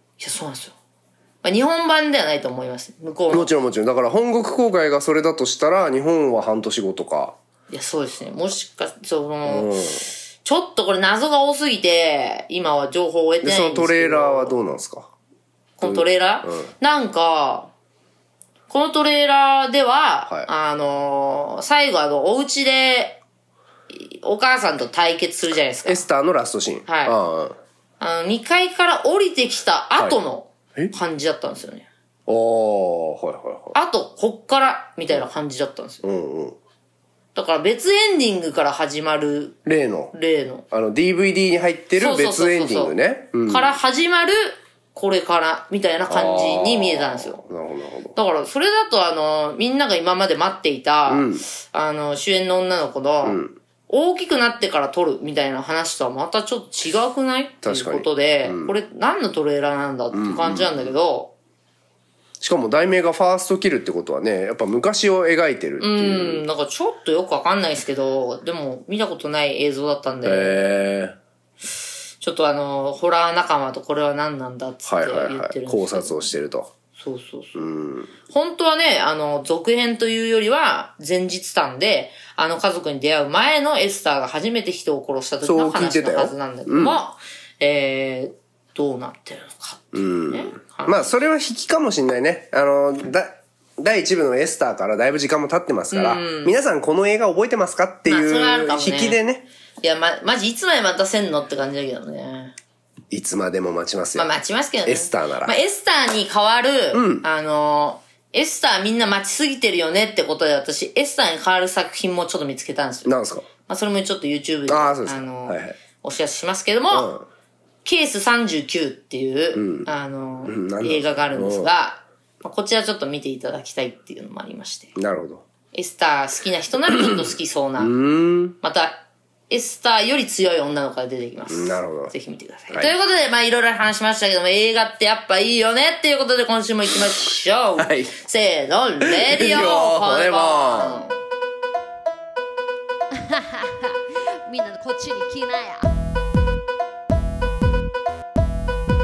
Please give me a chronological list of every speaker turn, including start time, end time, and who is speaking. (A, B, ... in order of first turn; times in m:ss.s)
0:00.2-0:00.8 A
0:01.4-0:03.5 A
0:03.3-0:07.4 B
0:07.7-0:09.7 A
0:09.4-0:10.1 B
0:10.4-0:14.6 A
0:13.4-0:15.1 B
0:15.8-0:17.7 A
0:15.8-0:16.7 B
0:18.7-0:23.2 A
0:23.9-0:26.0 A
0:25.8-0:27.6 B
0:26.9-0:27.2 A
0:28.0-0:31.8 A
0:32.3-0:33.8 B
0:33.7-0:36.0 A
0:36.0-0:36.6 B
0:37.3-0:39.6 A
0:39.6-0:40.1 B
0:40.1-0:40.6 A
0:40.7-0:43.7 B
0:42.0-0:47.4 A
0:46.1-0:48.2 B
0:48.2-1:01.3 A
0:51.1-0:51.4 B
0:53.2-0:53.5 B
0:57.6-0:58.7 B
1:00.1-1:00.9 B
1:02.4-1:06.4 B
1:05.8-1:10.6 A
1:10.2-1:11.2 B
1:12.2-1:16.2 A
1:14.8-1:16.7 B
1:17.0-1:17.7 A
1:17.6-1:18.1 B
1:18.3-1:31.1 A
1:25.4-1:27.0 B
1:29.9-1:39.5 B
1:35.9-1:36.5 A
1:38.1-1:39.2 A
1:39.8-1:42.5 A
1:43.1-1:44.3 B
1:44.1-1:53.1 A
1:44.8-1:45.6 B
1:46.9-1:47.2 B
1:53.0-1:53.5 B
1:53.6-1:57.1 A
1:54.7-1:55.8 B
1:56.9-1:57.2 B
1:57.8-2:05.0 A
1:59.5-1:59.9 B
2:00.4-2:01.7 B
2:05.0-2:05.4 B
2:05.7-2:07.9 A
2:06.9-2:08.6 B
2:08.6-2:21.2 A
2:11.5-2:12.1 B
2:17.8-2:18.1 B
2:19.0-2:21.0 B
2:23.1-2:25.9 C